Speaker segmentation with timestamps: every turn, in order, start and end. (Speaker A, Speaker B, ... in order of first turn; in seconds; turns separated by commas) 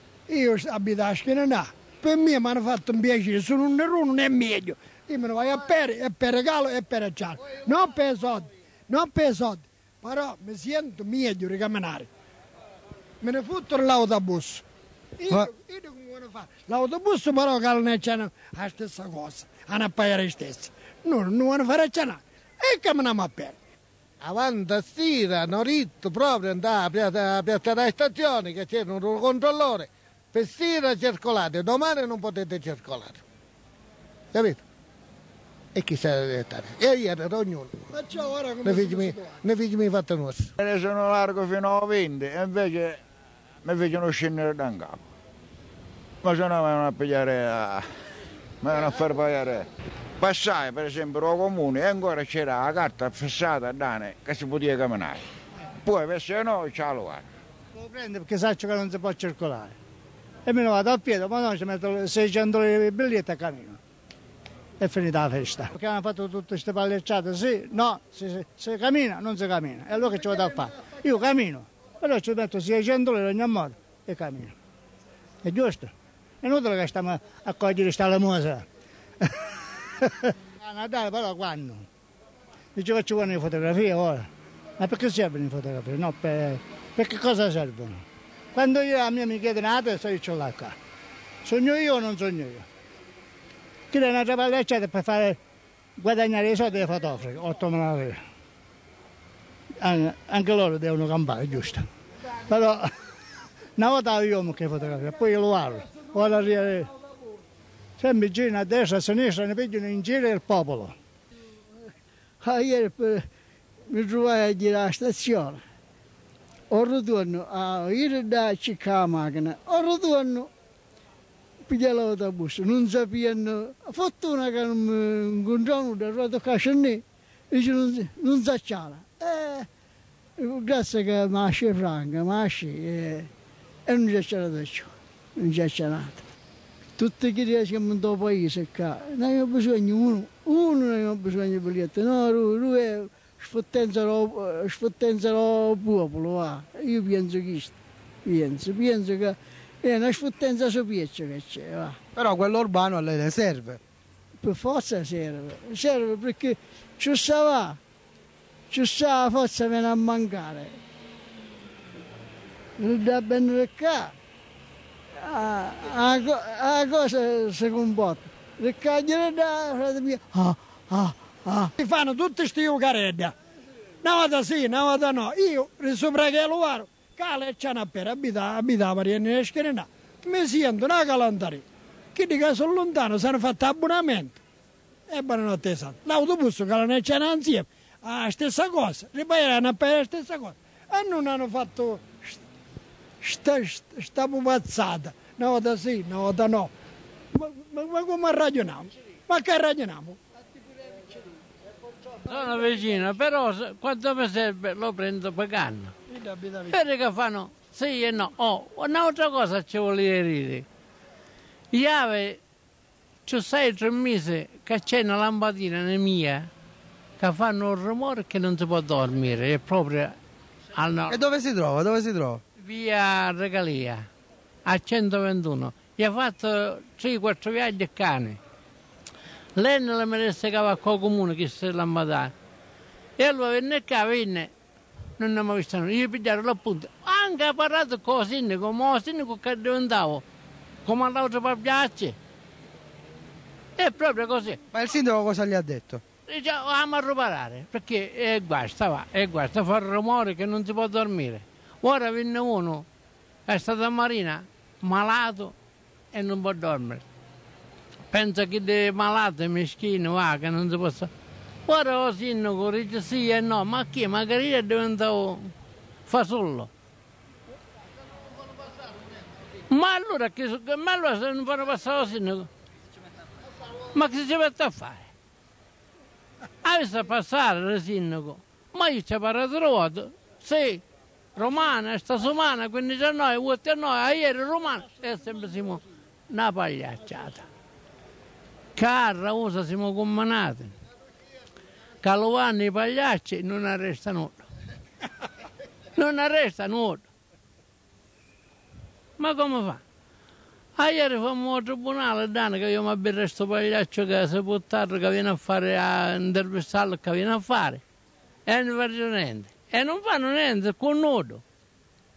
Speaker A: 0.3-12.1, Speaker A: 13.2-14.6, Speaker A: 15.2-23.5, Speaker B: 24.2-33.2, Speaker B: 34.3-34.6, Speaker B: 35.7-37.9, Speaker A: 37.9-39.4, Speaker B: 38.6-40.5, Speaker C: 40.6-43.0, Speaker C: 43.6-45.0, Speaker C: 46.2-47.9, Speaker C: 48.6-49.7, Speaker C: 50.2-55.2, Speaker C: 55.8-57.2, Speaker D: 57.8-59.7, Speaker D: 60.5-63.8, Speaker D: 64.8-74.5, Speaker D: 75.4-78.7, Speaker D: 80.0-81.9, Speaker D: 82.7-84.3, Speaker D: 84.8-88.0, Speaker D: 88.5-90.7, Speaker D: 91.4-92.7, Speaker D: 93.9-95.4, Speaker D: 96.0-98.2, Speaker D: 99.8-101.8, Speaker D: 102.5-102.9, Speaker D: 103.8-106.9, Speaker D: 108.0-110.9, Speaker E: 112.4-113.2, Speaker E: 113.9-115.6, Speaker E: 116.7-120.5, Speaker E: 121.7-129.7, Speaker E: 130.4-133.3, Speaker E: 133.9-136.2, Speaker E: 137.0-151.9, Speaker F: 152.2-153.8, Speaker E: 154.4-157.8, Speaker E: 158.7-160.8, Speaker E: 162.8-164.1, Speaker E: 165.2-171.7, Speaker A: 171.8-173.3, Speaker A: 174.0-184.4, Speaker A: 185.1-192.4, Speaker A: 193.2-196.7, Speaker A: 197.3-200.2, Speaker G: 202.2-205.9, Speaker A: 206.1-206.8, Speaker G: 206.7-210.7, Speaker G: 211.7-212.4, Speaker G: 213.2-216.5, Speaker G: 217.2-220.2, Speaker G: 220.7-221.2, Speaker F: 221.1-222.4, Speaker G: 222.6-224.1, Speaker G: 224.7-228.4, Speaker G: 229.6-232.3, Speaker G: 233.2-234.5, Speaker G: 235.2-240.2, Speaker G: 240.8-242.2, Speaker G: 243.8-244.6, Speaker F: 244.7-246.0, Speaker G: 246.3-252.8, Speaker G: 253.5-255.5, Speaker G: 256.1-257.0, Speaker G: 258.1-261.1, Speaker G: 261.6-265.5, Speaker G: 266.1-266.7, Speaker G: 269.7-272.5, Speaker G: 273.9-275.1, Speaker G: 276.6-280.8, Speaker G: 281.4-287.4, Speaker G: 288.8-290.7, Speaker G: 292.0-294.4, Speaker G: 295.9-297.1, Speaker G: 299.2-299.8, Speaker G: 300.8-307.8, Speaker G: 308.4-311.4